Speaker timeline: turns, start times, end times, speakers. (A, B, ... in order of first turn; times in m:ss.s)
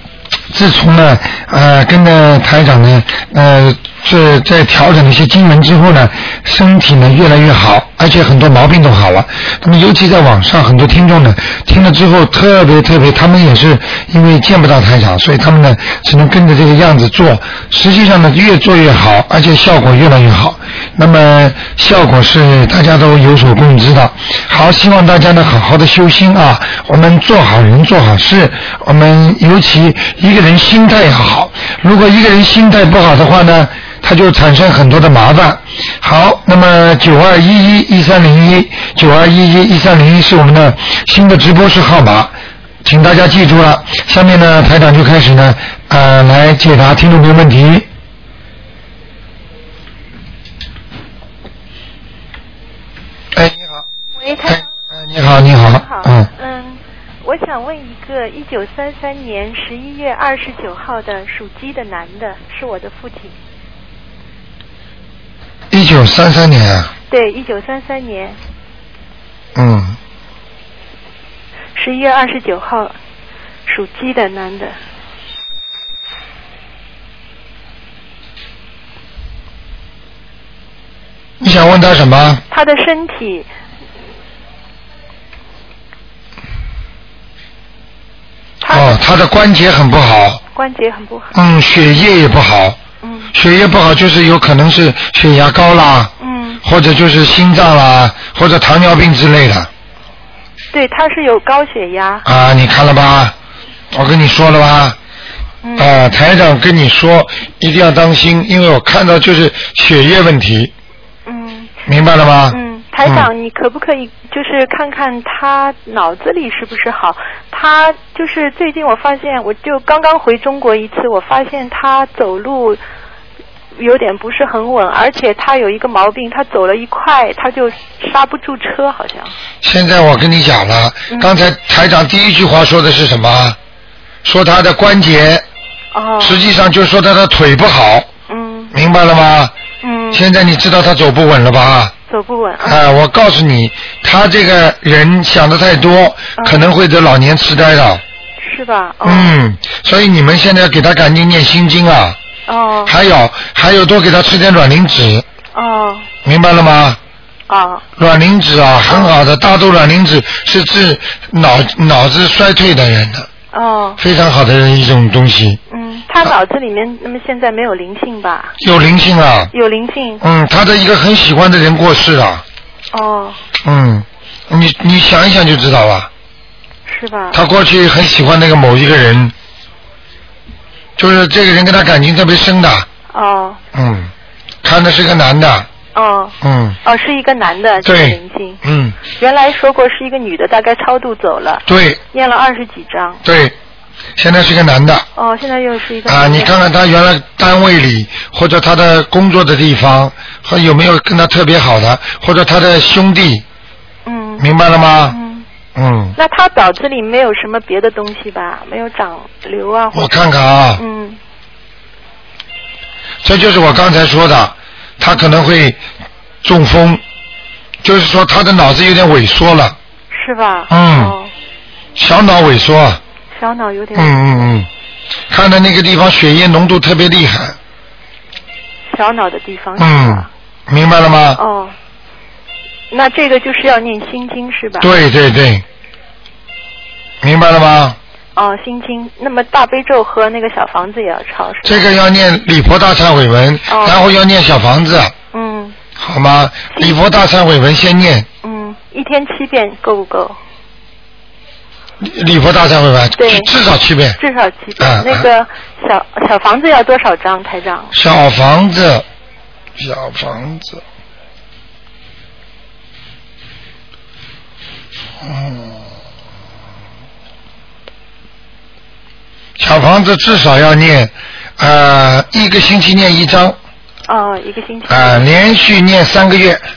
0:00.5-0:47.8 A
0:53.3-0:53.8 A
0:54.2-0:54.7 B
0:54.5-0:56.3 A
0:55.6-1:03.3 B
1:05.7-1:06.9 A
1:07.1-1:08.4 B
1:09.5-1:10.0 A
1:11.8-1:13.0 B
1:13.7-1:14.8 B
1:21.4-1:22.4 A
1:22.5-1:23.5 B
1:28.6-1:29.0 B
1:28.7-1:30.4 A
1:30.5-1:31.3 B
1:31.3-1:32.8 A
1:33.0-1:33.3 B
1:33.3-1:36.1 A
1:36.2-1:36.6 B
1:36.6-1:39.7 A
1:40.7-1:42.2 B
1:42.2-1:43.3 A
1:43.9-1:45.0 A
1:45.6-1:45.9 B
1:45.8-1:50.7 A
1:51.2-1:51.7 B
1:51.9-1:53.3 A
1:52.5-2:02.8 B
2:03.8-2:09.3 B
2:09.6-2:13.6 A
2:11.1-2:11.4 B
2:14.2-2:15.4 A
2:15.9-2:16.5 B
2:16.2-2:18.1 A
2:18.3-2:18.7 B
2:18.7-2:19.5 A
2:19.8-2:20.2 B
2:20.1-2:21.9 A
2:22.1-2:22.8 B
2:22.6-2:28.0 A
2:26.4-2:26.7 B
2:28.4-2:29.4 B
2:29.0-2:32.2 A
2:32.5-2:32.9 B
2:32.8-2:35.2 A
2:35.5-2:36.1 B
2:36.2-2:37.0 A
2:37.5-2:37.8 B
2:38.0-2:43.3 A
2:38.9-2:39.2 B
2:43.5-2:44.0 B
2:44.0-2:45.6 A
2:45.7-2:48.6 B
2:48.6-2:49.5 A
2:49.5-2:50.2 B
2:50.2-2:52.4 A
2:52.9-2:53.4 B
2:53.6-2:56.1 A
2:56.9-2:57.4 B
2:57.3-2:59.3 A
3:01.0-3:02.9 A
3:03.1-3:03.6 B
3:03.7-3:04.1 A
3:04.6-3:05.7 A
3:05.9-3:08.6 B
3:06.4-3:06.8 A
3:07.8-3:09.0 A
3:09.2-3:13.2 B
3:11.7-3:12.0 A
3:13.2-3:13.5 A
3:14.2-3:15.0 A
3:15.2-3:16.6 B
3:16.1-3:23.4 A
3:24.0-3:24.4 B
3:24.4-3:25.2 A
3:25.1-3:25.4 B
3:25.7-3:26.2 A
3:26.2-3:30.2 B
3:29.9-3:30.8 A
3:30.7-3:31.2 B
3:33.2-3:35.8 A
3:36.4-3:37.0 A
3:37.8-3:39.8 A
3:40.1-3:41.3 B
3:40.7-3:41.1 A
3:42.0-3:43.0 A
3:43.3-3:44.2 B
3:43.9-3:44.7 A
3:45.3-3:47.6 A
3:48.9-3:50.3 B
3:49.8-3:51.4 A
3:51.4-3:51.7 B
3:52.9-3:54.9 B
3:54.8-3:55.6 A
3:57.2-3:58.0 A
3:58.4-4:01.9 B
4:01.6-4:05.1 A
4:03.7-4:04.0 B
4:05.3-4:05.8 B
4:06.0-4:08.3 A
4:06.7-4:07.0 B
4:08.4-4:10.4 B
4:12.0-4:14.2 A
4:13.2-4:13.5 B
4:14.2-4:17.9 B
4:14.8-4:15.3 A
4:17.9-4:19.0 A
4:19.8-4:20.8 A
4:25.2-4:25.8 A
4:29.6-4:33.6 A
4:34.1-4:35.3 B
4:34.9-4:36.6 A